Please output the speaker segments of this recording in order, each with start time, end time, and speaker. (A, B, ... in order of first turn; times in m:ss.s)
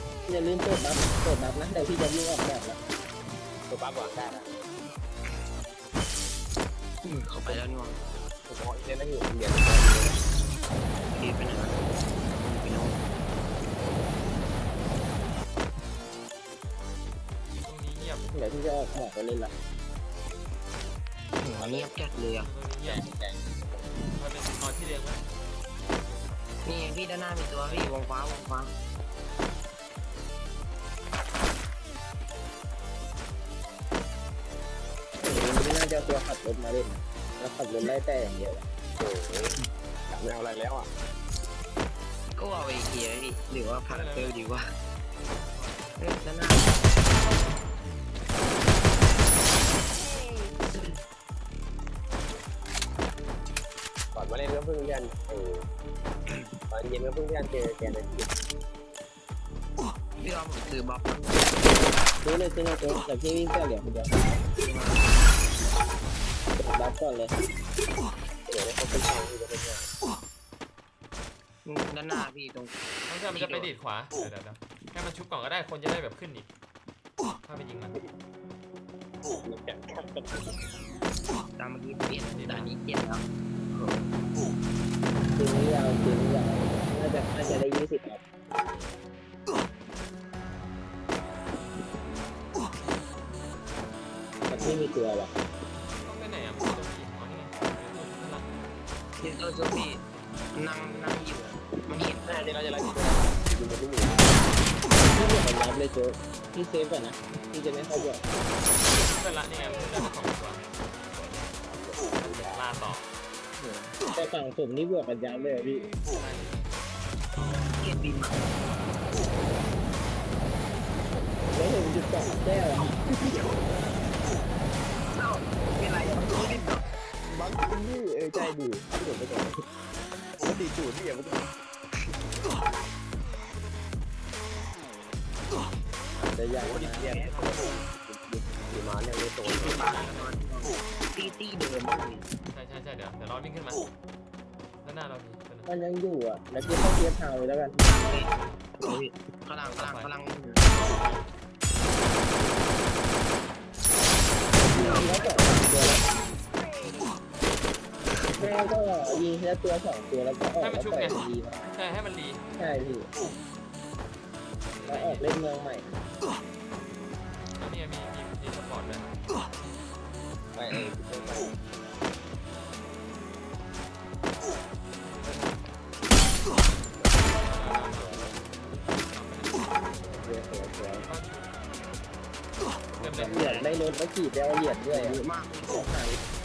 0:00.3-0:02.8 A
0:03.7-0:04.5 B
0:07.0-0:08.0 C
0:08.4-0:10.2 B
0:11.1-0:11.8 C
0:12.4-0:13.0 C
0:17.6-0:18.3 D
0:18.3-0:19.5 A
0:21.4-0:22.5 C
0:21.4-0:22.1 B
0:22.3-0:23.0 D
0:22.8-0:23.9 B
0:24.1-0:25.2 D
0:26.0-0:26.4 D
0:26.6-0:28.7 C
0:27.6-0:28.1 D
0:35.3-0:38.6 A
0:39.0-0:39.6 B
0:40.1-0:40.9 B
0:42.4-0:44.6 C
0:43.9-0:44.6 D
0:45.5-0:46.1 D
0:46.0-0:46.7 C
0:54.1-0:55.6 B
0:56.7-0:58.3 B
1:00.2-1:01.6 C
1:02.2-1:04.2 A
1:04.6-1:05.2 C
1:06.6-1:07.3 A
1:08.5-1:09.9 B
1:11.6-1:12.8 C
1:13.1-1:16.5 D
1:13.3-1:13.7 C
1:17.4-1:18.0 D
1:19.4-1:20.6 B
1:21.6-1:23.2 C
1:22.3-1:22.7 D
1:25.3-1:28.2 A
1:34.5-1:35.3 A
1:36.0-1:38.4 D
1:39.2-1:42.6 C
1:42.2-1:44.5 B
1:45.1-1:48.2 A
1:48.9-1:50.6 D
1:51.5-1:52.7 B
1:52.2-1:53.0 D
1:53.6-1:55.9 A
1:56.1-1:56.7 D
1:57.3-1:57.8 D
1:57.8-1:58.5 C
2:01.5-2:03.3 A
2:05.1-2:06.8 C
2:07.3-2:09.6 B
2:10.4-2:11.4 B
2:16.2-2:17.2 A
2:16.6-2:19.8 B
2:19.5-2:20.2 D
2:19.5-2:22.3 C
2:22.5-2:23.8 D
2:24.8-2:25.7 D
2:25.6-2:27.8 A
2:27.8-2:30.8 C
2:28.1-2:28.6 D
2:29.5-2:31.3 D
2:32.4-2:32.7 B
2:34.7-2:36.0 C
2:34.7-2:36.0 A
2:38.4-2:41.8 A
2:40.6-2:42.4 D
2:42.6-2:43.1 A
2:44.7-2:45.3 D
2:44.8-2:45.9 A
2:47.6-2:49.1 D
2:50.5-2:51.6 B
2:55.2-2:55.6 D
2:56.9-2:58.4 B
2:57.4-3:00.4 D
3:00.0-3:01.1 B
3:00.9-3:01.6 D
3:02.9-3:03.7 B
3:03.0-3:03.8 D
3:03.2-3:06.2 A
3:04.9-3:05.9 C